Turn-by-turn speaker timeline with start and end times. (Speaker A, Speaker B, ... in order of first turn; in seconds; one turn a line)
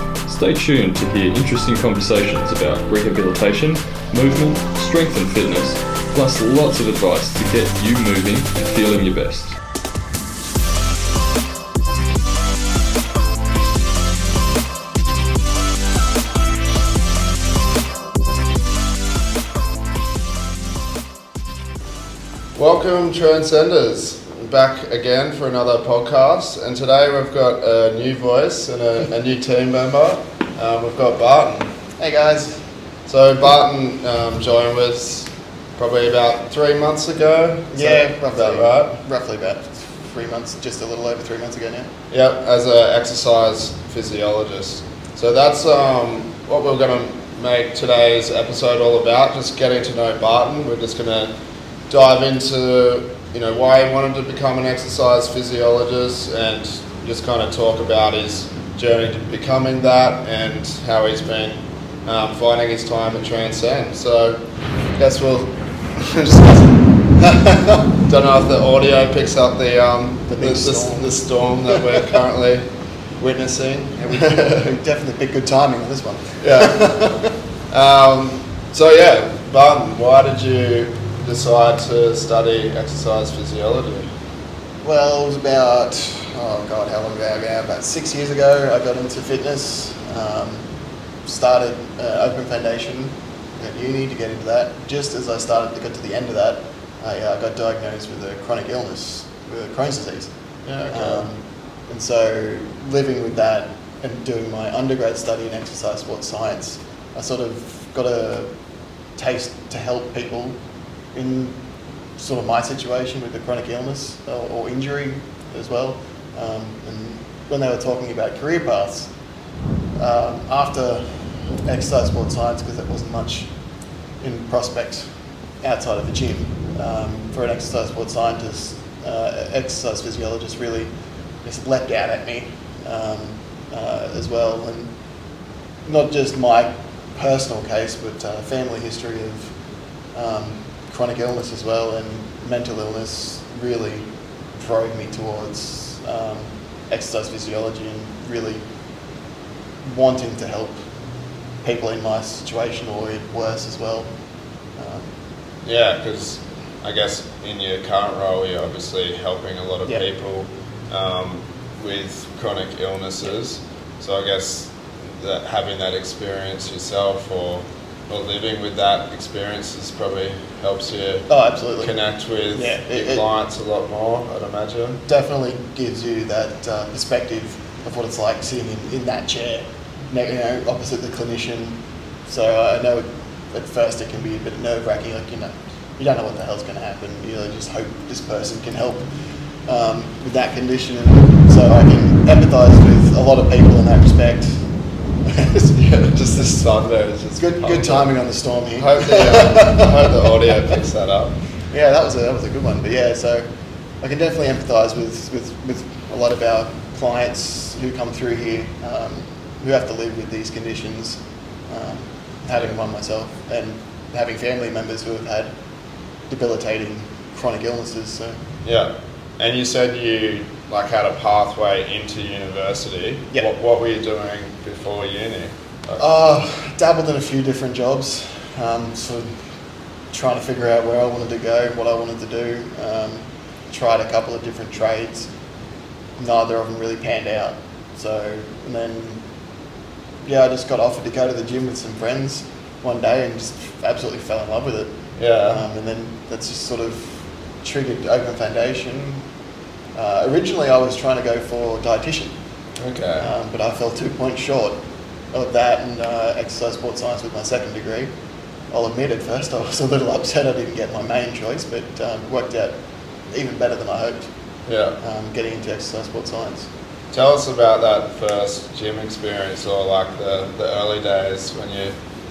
Speaker A: 0.3-9.6
Speaker B: 22.6-31.7
Speaker C: 32.0-32.7
Speaker B: 33.1-39.0
Speaker C: 37.7-41.9
Speaker B: 42.1-51.3
Speaker B: 51.9-64.4
Speaker B: 65.0-66.8
Speaker C: 67.2-67.9
Speaker B: 68.1-74.6
Speaker C: 70.3-71.8
Speaker C: 74.0-77.3
Speaker B: 76.4-84.1
Speaker C: 84.8-90.7
Speaker C: 91.2-100.3
Speaker B: 100.7-101.3
Speaker C: 100.9-108.5
Speaker C: 109.2-110.6
Speaker C: 111.1-111.6
Speaker C: 112.2-119.1
Speaker C: 120.0-123.5
Speaker C: 124.2-130.9
Speaker C: 131.4-134.9
Speaker C: 135.8-139.6
Speaker C: 140.1-148.7
Speaker C: 149.8-150.9
Speaker C: 151.6-154.1
Speaker C: 154.8-155.1
Speaker B: 155.6-175.0
Speaker C: 171.3-171.9
Speaker C: 172.5-173.3
Speaker C: 175.1-194.7
Speaker C: 195.2-195.8
Speaker B: 195.7-201.4
Speaker C: 197.4-200.3
Speaker C: 201.7-203.5
Speaker C: 204.0-215.5
Speaker C: 216.3-218.4
Speaker B: 218.6-226.1
Speaker C: 226.0-229.3
Speaker C: 230.1-235.3
Speaker C: 236.2-239.2
Speaker C: 240.2-249.2
Speaker B: 245.2-245.6
Speaker C: 249.9-252.4
Speaker B: 252.8-253.3
Speaker C: 253.2-254.8
Speaker C: 255.3-258.1
Speaker C: 258.7-262.8
Speaker C: 263.3-264.3
Speaker B: 264.7-265.0
Speaker C: 265.0-266.7
Speaker B: 267.1-271.9